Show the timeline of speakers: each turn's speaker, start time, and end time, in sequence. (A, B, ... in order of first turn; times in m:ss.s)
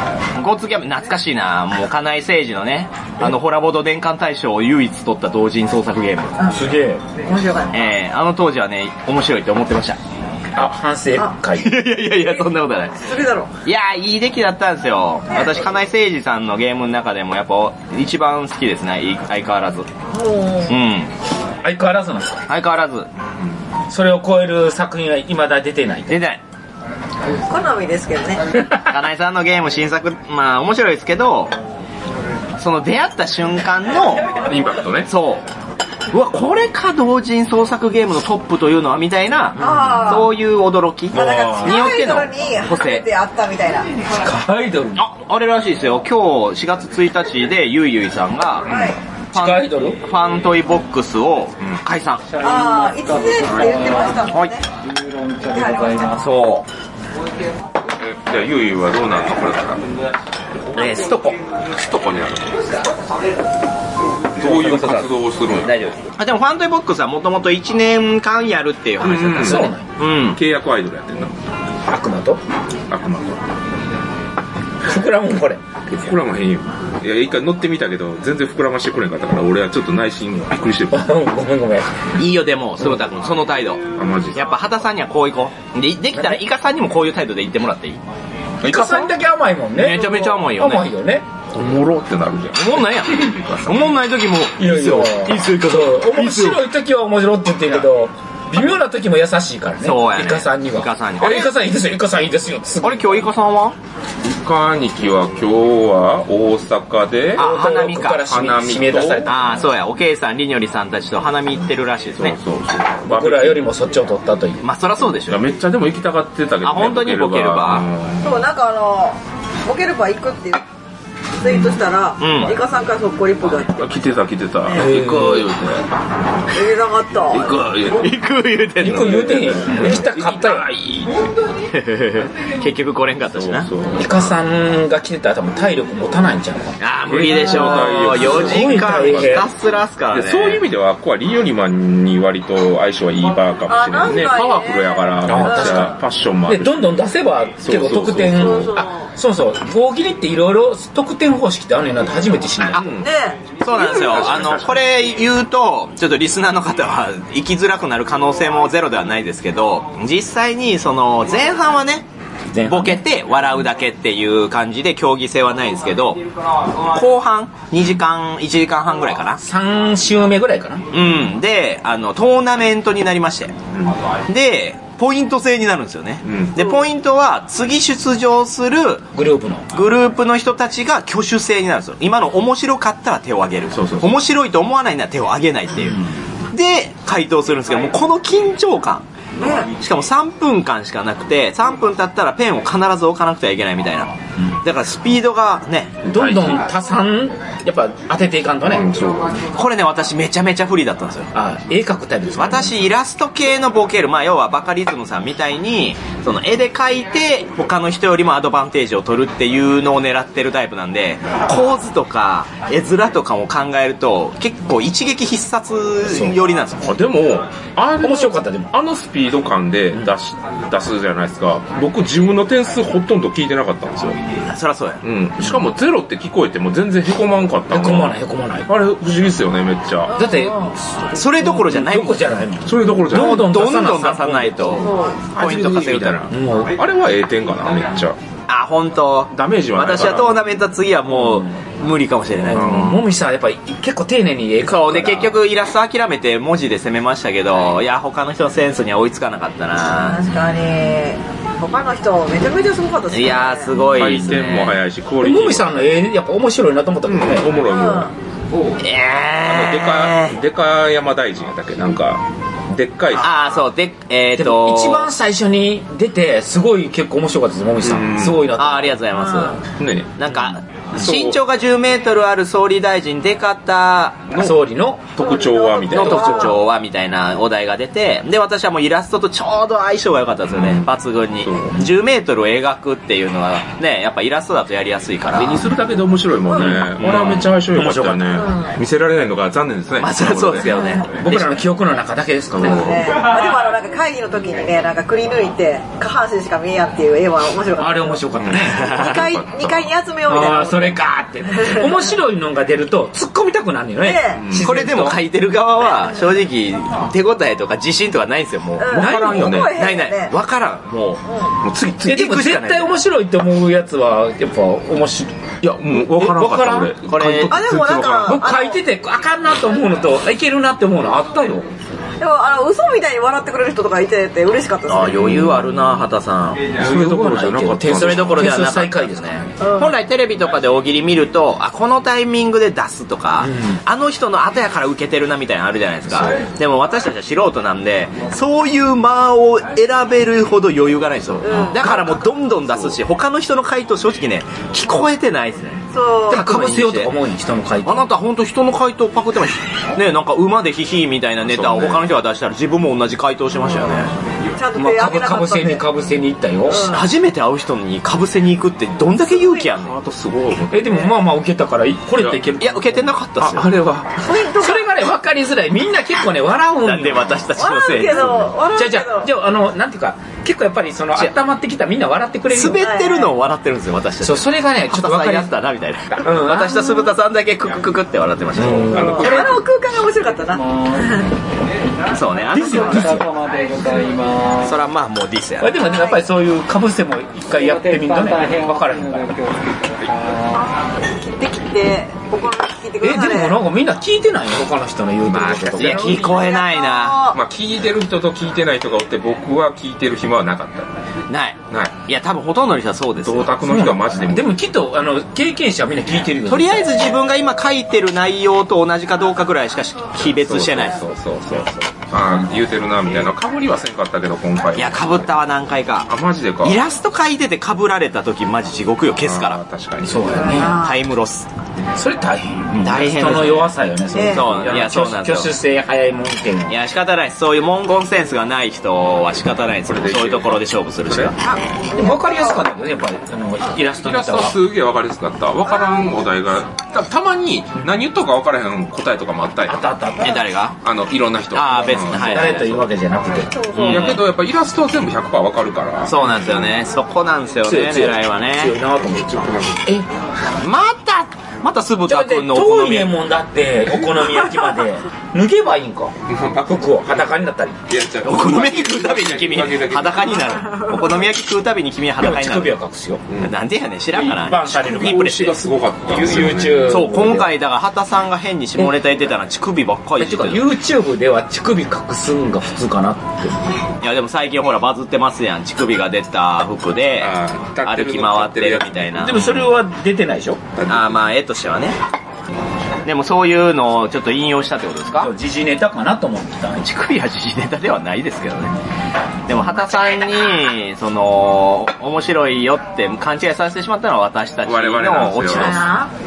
0:00.4-0:06.4 A
0:06.5-0:07.0 B
0:07.2-0:07.8 C
0:07.7-0:10.0 A
0:10.6-0:11.9 B
0:11.6-0:13.1 A
0:12.1-0:12.4 C
0:13.0-0:13.5 C
0:13.6-0:19.9 A
0:20.1-0:20.7 C
0:20.7-0:21.1 A
0:21.6-0:22.5 B
0:22.5-0:23.1 A
0:23.9-0:26.2 B
0:26.1-0:26.4 A
0:27.5-0:28.6 C
0:28.7-0:31.6 A
0:32.6-0:34.3 A
0:34.4-0:35.1 D
0:35.1-0:35.4 A
0:36.1-0:43.1 A
0:39.6-0:40.3 C
0:39.6-0:39.9 D
0:41.1-0:42.0 B
0:41.1-0:43.9 C
0:44.2-0:45.0 B
0:45.0-0:48.7 A
0:48.7-0:49.0 C
0:48.7-0:49.0 D
0:49.3-0:52.3 A
0:49.3-0:50.0 B
0:52.4-0:54.6 C
0:52.4-0:54.1 E
0:53.4-0:53.9 D
0:54.3-0:54.6 A
0:54.8-0:56.2 E
0:55.5-0:56.2 C
0:56.1-0:56.7 A
0:57.9-0:59.8 D
1:00.7-1:01.0 D
1:00.8-1:01.4 A
1:01.6-1:02.6 D
1:04.4-1:05.8 D
1:04.4-1:10.4 A
1:04.6-1:05.0 B
1:09.0-1:09.7 D
1:09.4-1:09.9 B
1:10.2-1:11.4 D
1:11.9-1:12.4 B
1:12.9-1:13.4 D
1:14.8-1:15.6 B
1:15.9-1:21.1 D
1:20.9-1:22.1 B
1:22.2-1:28.0 A
1:24.0-1:24.6 D
1:26.2-1:26.4 B
1:28.6-1:29.1 D
1:28.6-1:31.3 B
1:29.7-1:30.9 A
1:31.5-1:34.0 D
1:32.5-1:36.6 A
1:34.6-1:43.3 B
1:39.8-1:41.5 A
1:42.8-1:43.8 A
1:44.2-1:47.5 D
1:47.4-1:48.3 A
1:47.4-1:49.7 B
1:48.3-1:49.3 D
1:49.3-1:52.4 A
1:52.2-1:53.6 D
1:53.1-1:54.6 B
1:54.6-1:55.4 A
1:55.3-1:58.3 D
1:56.6-1:57.9 A
1:58.2-2:00.6 C
2:01.4-2:03.9 C
2:01.4-2:01.8 D
2:02.2-2:02.6 A
2:03.8-2:05.9 D
2:04.6-2:04.9 C
2:04.7-2:05.5 B
2:06.5-2:07.6 C
2:07.3-2:08.1 D
2:08.0-2:09.4 A
2:08.8-2:10.7 B
2:08.8-2:11.1 D
2:11.7-2:13.7 A
2:13.3-2:14.2 D
2:14.0-2:16.8 B
2:16.8-2:20.6 A
2:17.1-2:19.5 D
2:17.8-2:19.5 B
2:20.1-2:27.0 D
2:23.7-2:26.0 C
2:25.2-2:32.9 B
2:27.6-2:28.8 D
2:28.3-2:29.1 C
2:32.7-2:33.1 D
2:33.0-2:33.4 C
2:33.6-2:42.1 A
2:33.7-2:34.9 D
2:42.5-2:43.0 B
2:42.6-2:46.2 A
2:46.8-2:49.4 A
2:49.4-2:50.9 B
2:50.9-2:53.6 A
2:54.3-2:59.1 A
2:56.2-2:56.6 D
2:59.1-2:59.7 B
2:59.7-3:09.1 A
3:03.7-3:04.1 D
3:09.4-3:09.7 C
3:09.7-3:16.0 A
3:16.0-3:16.6 D
3:16.1-3:18.9 B
3:18.7-3:19.4 D
3:19.5-3:21.3 A
3:21.3-3:22.9 B
3:22.4-3:37.0 A
3:36.8-3:44.2 D
3:38.0-3:38.7 B
3:44.5-3:45.0 A
3:45.0-3:50.2 D
3:47.7-3:48.7 B
3:50.1-3:50.8 C
3:50.1-3:54.9 B
3:51.1-3:52.3 A
3:52.6-3:53.5 D
3:53.1-3:56.3 A
3:54.8-3:55.2 C
3:55.3-3:58.2 D
3:56.3-3:56.8 B
3:58.5-4:03.0 A
3:59.3-4:00.5 D
4:02.5-4:05.4 B
4:02.5-4:03.0 D
4:04.6-4:10.3 A
4:10.0-4:13.8 C
4:13.1-4:14.8 A
4:13.9-4:15.7 D
4:15.2-4:17.5 B
4:17.1-4:18.1 D
4:17.6-4:18.1 C
4:18.8-4:20.4 A
4:19.4-4:23.6 D
4:23.1-4:25.1 A
4:24.3-4:29.0 B
4:27.8-4:28.5 D
4:28.6-4:29.6 A
4:29.2-4:29.6 C
4:29.8-4:31.4 D
4:30.2-4:34.3 A
4:34.3-4:34.6 D
4:34.4-4:35.1 B
4:35.2-4:36.6 D
4:35.2-4:36.6 C
4:35.9-4:45.6 A
4:36.0-4:36.5 B
4:40.5-4:41.8 D
4:45.3-4:50.8 D
4:46.5-4:46.8 C
4:46.6-4:48.4 B
4:48.3-4:48.8 C
4:50.0-4:51.6 A
4:50.6-4:51.0 C
4:51.1-4:53.2 B
4:52.5-4:53.3 D
4:52.6-4:58.2 C
4:57.8-4:59.0 B
4:58.4-4:59.9 D
4:58.7-4:59.2 A
4:58.8-5:02.0 C
5:00.3-5:05.2 B
5:04.0-5:04.4 C
5:04.4-5:04.7 D
5:04.6-5:11.2 A
5:08.8-5:10.3 C
5:09.0-5:09.7 D
5:09.0-5:09.4 B
5:11.3-5:11.6 C
5:11.6-5:12.3 D
5:12.0-5:17.0 B
5:12.0-5:12.9 A
5:15.6-5:18.4 D
5:17.1-5:17.6 A
5:17.5-5:18.8 C
5:18.2-5:21.7 B
5:22.2-5:25.2 C
5:24.9-5:26.6 A
5:25.2-5:25.7 D
5:26.8-5:28.7 D
5:26.8-5:29.5 B
5:27.9-5:47.1 A
5:29.6-5:30.0 C
5:33.4-5:33.8 B
5:41.4-5:42.1 C
5:41.6-5:42.0 B
5:42.5-5:43.0 D
5:45.9-5:46.4 C
5:46.3-5:48.1 B
5:47.8-5:54.1 A
5:51.4-5:52.1 D
5:54.6-5:55.9 C
5:54.8-5:56.9 B
5:56.7-5:57.1 C
5:56.8-6:00.0 A
5:59.2-5:59.7 C
5:59.8-6:01.0 D
6:00.7-6:03.1 B
6:02.2-6:02.5 D
6:02.6-6:03.7 A
6:03.4-6:04.1 D
6:04.2-6:04.9 C
6:04.5-6:07.5 B
6:06.8-6:08.5 A
6:07.6-6:09.3 C
6:08.7-6:12.8 B
6:12.5-6:19.5 A
6:12.8-6:13.4 C
6:14.2-6:15.5 B
6:16.1-6:17.0 B
6:18.6-6:19.5 B
6:18.9-6:19.6 D
6:18.9-6:21.3 C
6:20.5-6:21.1 E
6:22.1-6:23.2 A
6:22.5-6:23.3 B
6:22.8-6:24.8 E
6:24.6-6:25.8 A
6:25.6-6:29.5 B
6:25.8-6:26.2 C
6:27.6-6:30.6 E
6:30.5-6:33.6 C
6:33.0-6:36.3 B
6:35.3-6:37.2 A
6:35.8-6:37.4 C
6:37.3-6:40.9 D
6:41.3-6:43.6 A
6:43.2-6:44.5 D
6:43.6-6:47.0 B
6:46.5-6:51.0 A
6:50.4-6:55.3 D
6:54.8-6:59.6 A
6:56.1-6:56.8 D
6:59.2-7:00.6 D
7:00.0-7:00.8 B
7:00.3-7:01.0 C
7:00.6-7:01.5 A
7:02.0-7:06.8 B
7:02.7-7:03.7 A
7:04.1-7:04.5 C
7:04.3-7:05.5 A
7:06.7-7:11.4 A
7:09.8-7:11.4 D
7:11.4-7:12.6 C
7:11.9-7:14.6 B
7:14.0-7:19.9 D
7:15.6-7:16.2 C
7:19.6-7:20.4 B
7:20.2-7:20.8 A
7:20.8-7:22.8 D
7:21.5-7:22.8 A
7:22.0-7:23.6 B
7:23.5-7:24.2 C
7:23.7-7:24.2 A
7:23.8-7:26.8 D
7:26.1-7:28.8 A
7:27.6-7:30.1 B
7:29.2-7:29.8 D
7:30.6-7:33.1 A
7:32.0-7:37.8 B
7:36.3-7:36.9 D
7:37.9-7:40.8 D
7:38.2-7:42.7 A
7:42.2-7:43.2 B
7:43.3-7:43.6 D
7:43.4-7:45.6 A
7:44.1-7:47.5 B
7:44.5-7:47.0 D
7:46.8-7:50.7 A
7:50.2-7:53.6 B
7:54.0-7:59.6 A
7:57.2-7:59.5 D
7:59.2-8:00.6 B
8:00.8-8:01.3 D
8:00.9-8:02.0 A
8:03.0-8:05.3 A
8:05.2-8:06.8 B
8:06.8-8:08.7 A
8:09.5-8:15.9 A
8:14.6-8:15.9 D
8:15.5-8:16.1 C